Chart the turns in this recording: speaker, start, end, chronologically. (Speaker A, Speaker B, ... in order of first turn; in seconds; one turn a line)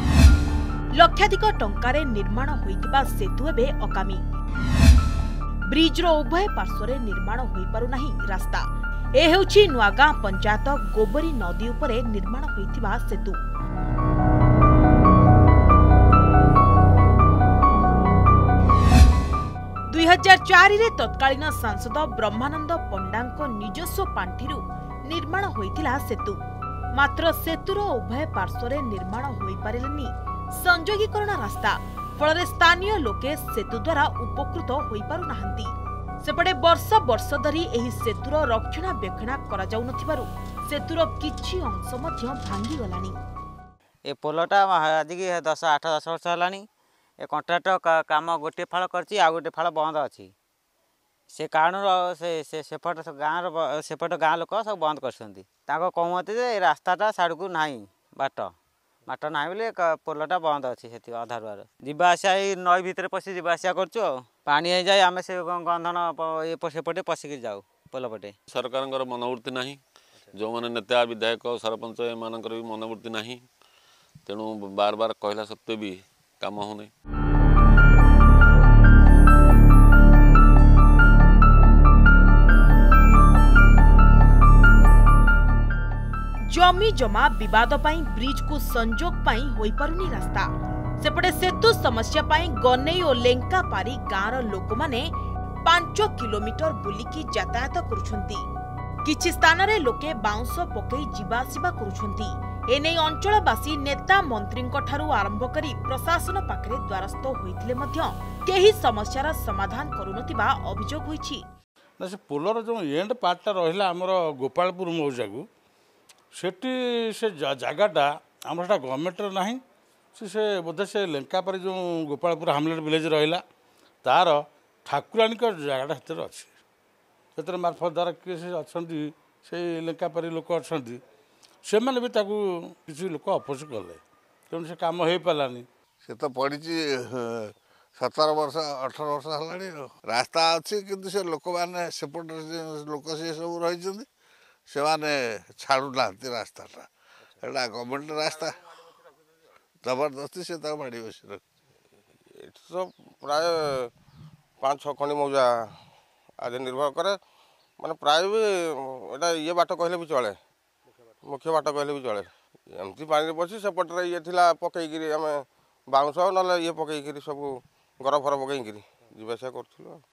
Speaker A: 1.0-4.2
Speaker A: 5.7-8.7
Speaker A: 9.2-13.4
Speaker A: 19.9-26.4
Speaker A: 26.9-35.7
Speaker A: 36.2-43.1
Speaker B: 44.1-46.6
Speaker B: 47.2-50.3
Speaker B: 51.3-58.5
Speaker B: 59.1-68.3
Speaker C: 68.5-69.8
Speaker C: 70.3-73.5
Speaker C: 74.3-76.9
Speaker A: 86.5-90.5
Speaker A: 91.0-95.1
Speaker A: 95.7-98.4
Speaker A: 99.0-111.4
Speaker D: 112.0-115.4
Speaker D: 116.4-119.6
Speaker D: 120.2-123.4
Speaker D: 124.0-126.5
Speaker D: 127.4-131.0
Speaker D: 131.7-135.7
Speaker E: 136.0-144.1
Speaker E: 144.7-146.9
Speaker E: 147.4-148.7
Speaker E: 149.8-151.4
Speaker F: 152.4-153.9
Speaker F: 154.6-155.5
Speaker F: 156.4-157.2
Speaker F: 157.8-160.4
Speaker F: 161.3-170.0